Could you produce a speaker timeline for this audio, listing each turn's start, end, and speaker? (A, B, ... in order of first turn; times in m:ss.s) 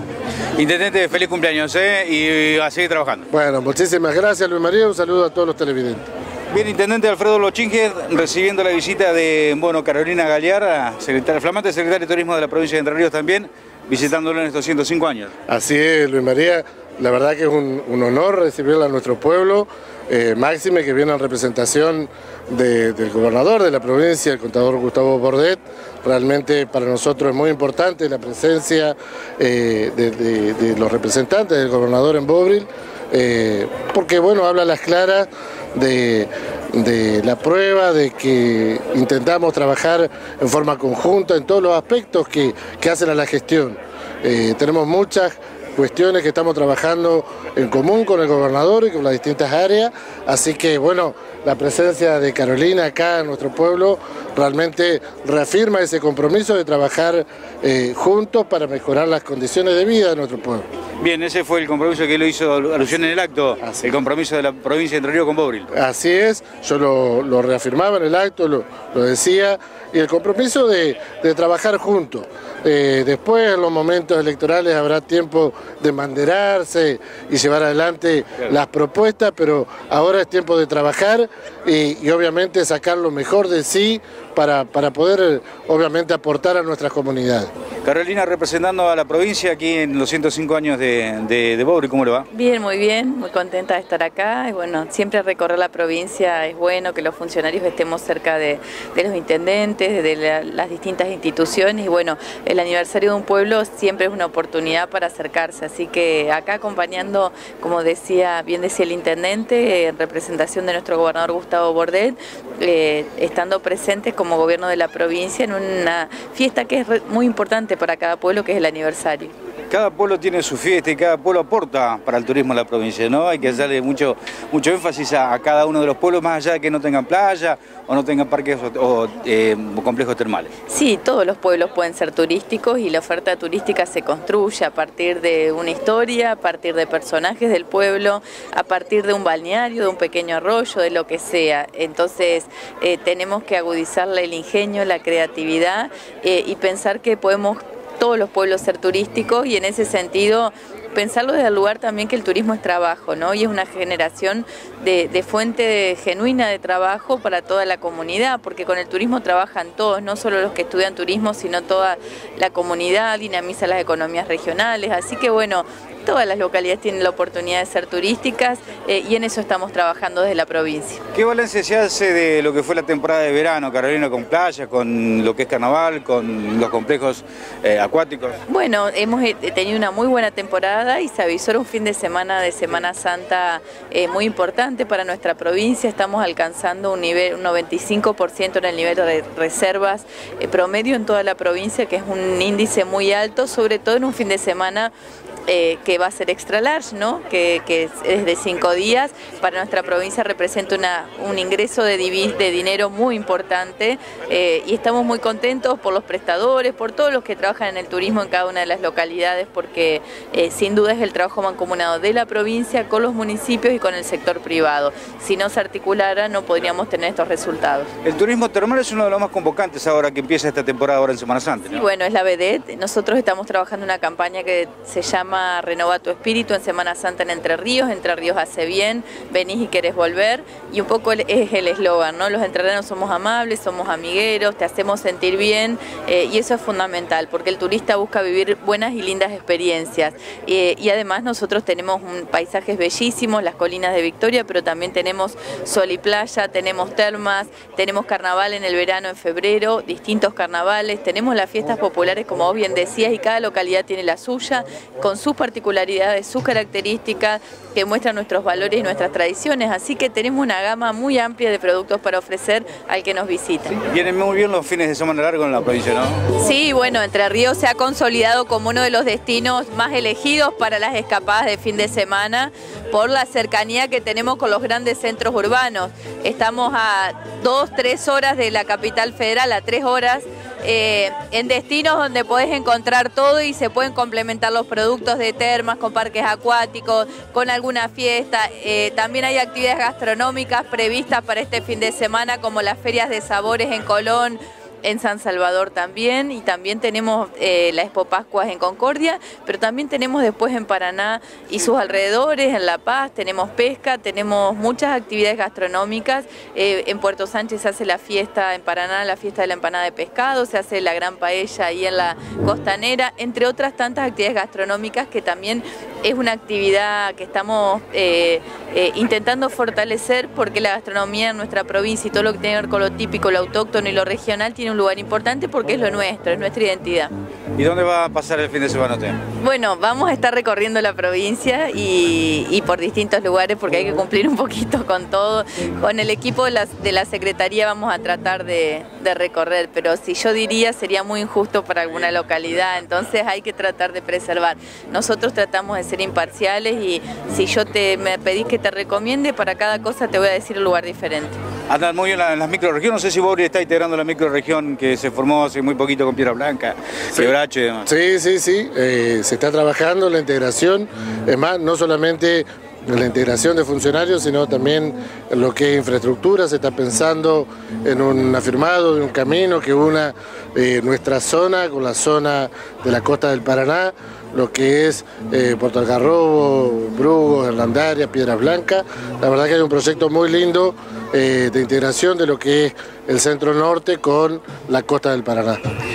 0:00.6-0:03.3 A
0:03.3-0:06.1 B
0:06.5-0:15.3 A
0:15.5-1:00.6 B
1:01.0-1:05.7 A
1:03.6-1:03.9 B
1:05.7-1:27.5 B
1:27.8-1:32.3 A
1:32.3-1:59.3 C
1:59.7-2:10.5 A
2:10.7-2:51.0 C
2:51.1-2:58.4 A
2:58.5-3:14.9 C
3:15.4-3:37.9 C
3:38.0-3:41.8 A
3:41.7-4:23.8 C
4:23.8-4:26.2 A
4:26.3-5:27.1 C
5:27.6-5:29.2 A
5:29.4-5:51.4 C
5:51.7-5:57.9 A
5:57.8-6:25.6 B